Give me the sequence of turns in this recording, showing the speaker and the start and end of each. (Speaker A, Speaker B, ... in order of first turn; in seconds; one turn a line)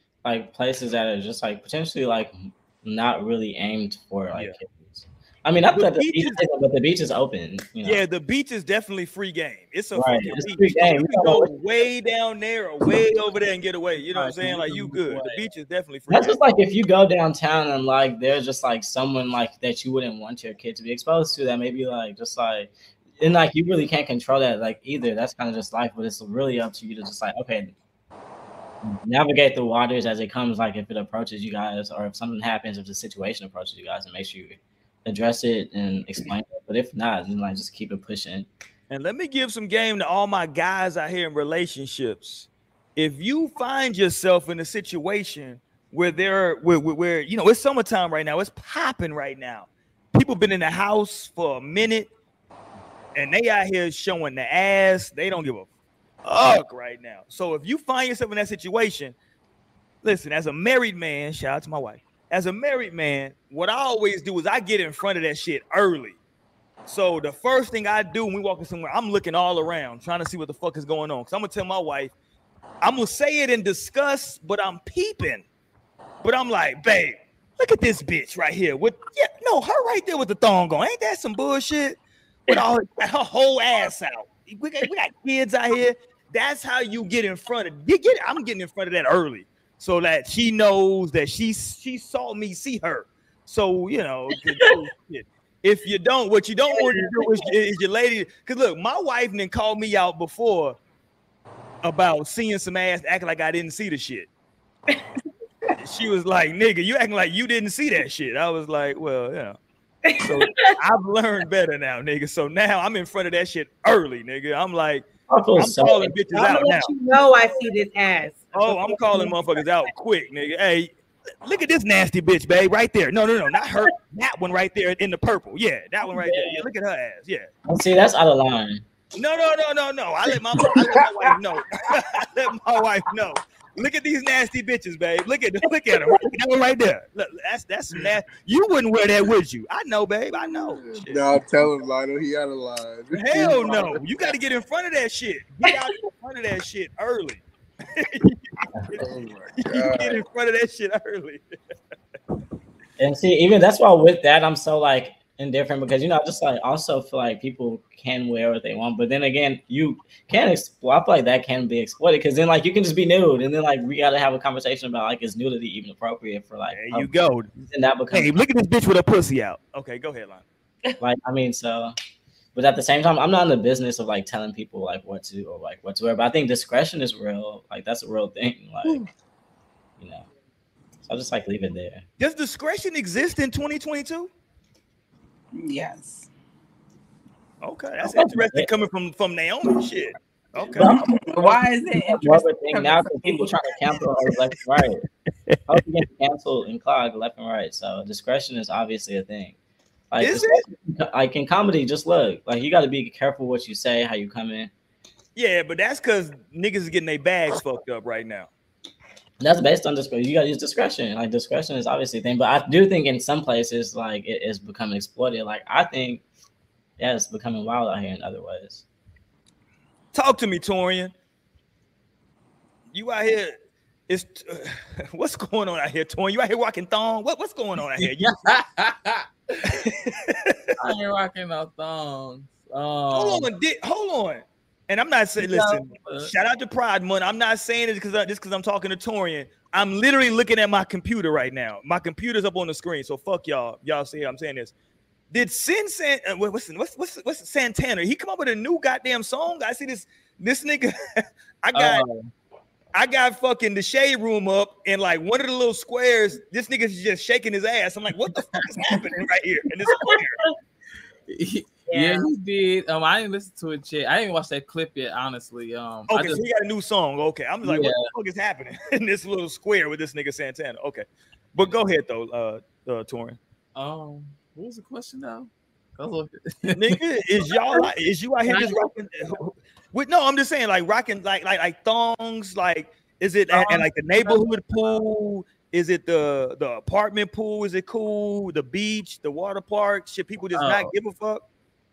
Speaker A: 0.2-8.0
Speaker B: 5.7-6.4
Speaker B: 7.8-16.4
Speaker A: 9.9-11.5
Speaker C: 14.1-15.4
Speaker A: 16.1-27.7
Speaker A: 29.0-38.5
Speaker B: 38.9-52.1
Speaker B: 53.1-55.7
Speaker B: 56.2-59.1
Speaker B: 60.0-66.2
Speaker B: 66.9-72.1
Speaker B: 72.8-75.4
Speaker B: 76.2-100.8
Speaker D: 96.7-97.4
Speaker B: 101.8-104.3
Speaker B: 105.8-109.6
Speaker D: 110.1-110.7
Speaker B: 110.2-116.9
Speaker A: 115.3-116.2
Speaker D: 116.3-119.9
Speaker B: 118.5-120.9
Speaker B: 121.4-127.5
Speaker A: 126.1-126.7
Speaker A: 127.7-128.8
Speaker B: 129.1-141.2
Speaker E: 140.8-144.1
Speaker B: 143.1-148.4
Speaker E: 149.0-150.2
Speaker B: 149.6-151.6
Speaker A: 153.0-168.3
Speaker B: 166.7-167.5
Speaker B: 168.1-170.4
Speaker A: 171.0-171.9
Speaker A: 172.5-179.1
Speaker A: 180.0-180.2
Speaker A: 181.1-182.0
Speaker B: 182.2-184.3
Speaker F: 185.5-186.3
Speaker B: 187.6-191.0
Speaker A: 188.0-188.7
Speaker A: 190.7-195.0
Speaker F: 190.8-193.8
Speaker B: 195.5-195.8
Speaker A: 195.7-199.6
Speaker A: 200.1-204.7
Speaker B: 200.2-200.6
Speaker B: 205.3-208.5
Speaker A: 209.4-216.2
Speaker A: 217.0-218.8
Speaker B: 220.1-221.1
Speaker B: 222.9-223.5
Speaker B: 224.1-228.3
Speaker C: 228.0-229.8
Speaker B: 229.7-230.8
Speaker C: 230.8-233.5
Speaker B: 233.1-244.7
Speaker C: 235.4-236.3
Speaker B: 245.3-252.0
Speaker C: 251.7-252.3
Speaker B: 252.9-260.4
Speaker C: 258.5-259.2
Speaker D: 259.9-260.5
Speaker C: 261.3-266.4
Speaker D: 261.9-262.3
Speaker B: 266.1-273.4
Speaker C: 267.6-268.1
Speaker C: 273.7-277.0
Speaker B: 276.7-291.4
Speaker C: 277.5-277.9
Speaker C: 278.5-278.8
Speaker C: 283.6-284.4
Speaker C: 290.5-290.9